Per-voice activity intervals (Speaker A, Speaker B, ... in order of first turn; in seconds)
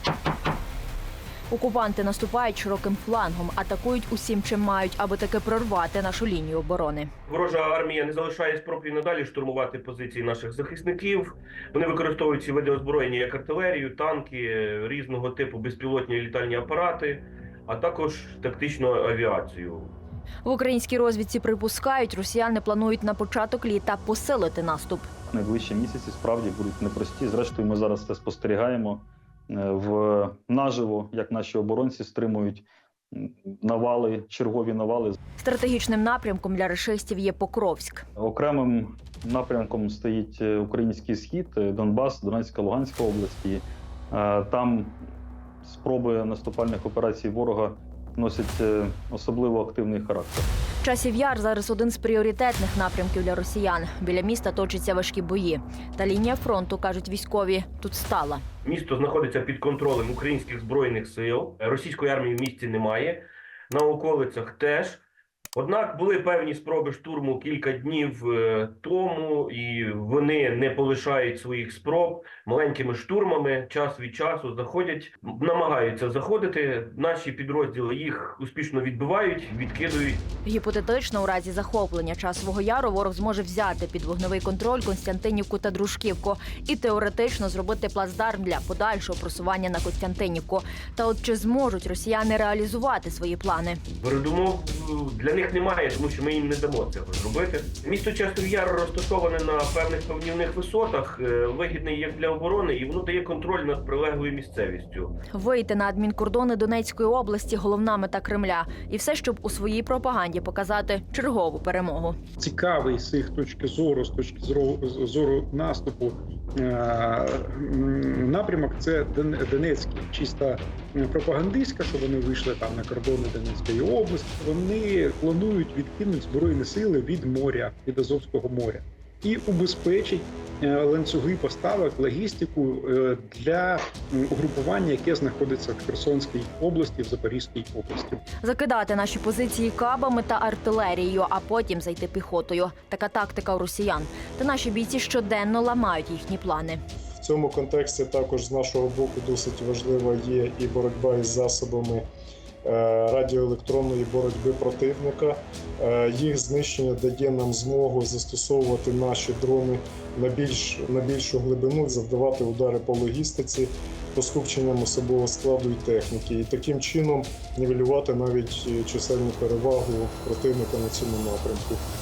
Speaker A: 1.5-7.1, 20.4-25.1, 35.4-38.1, 50.8-58.4, 80.5-93.8, 105.3-112.2, 138.4-146.8
Speaker B: 7.3-19.9, 58.6-65.0, 65.5-80.3, 94.0-105.2
Speaker C: 25.3-35.2, 38.2-45.0, 45.6-50.5
Speaker D: 112.4-138.2
Speaker E: 147.2-152.1, 152.6-171.8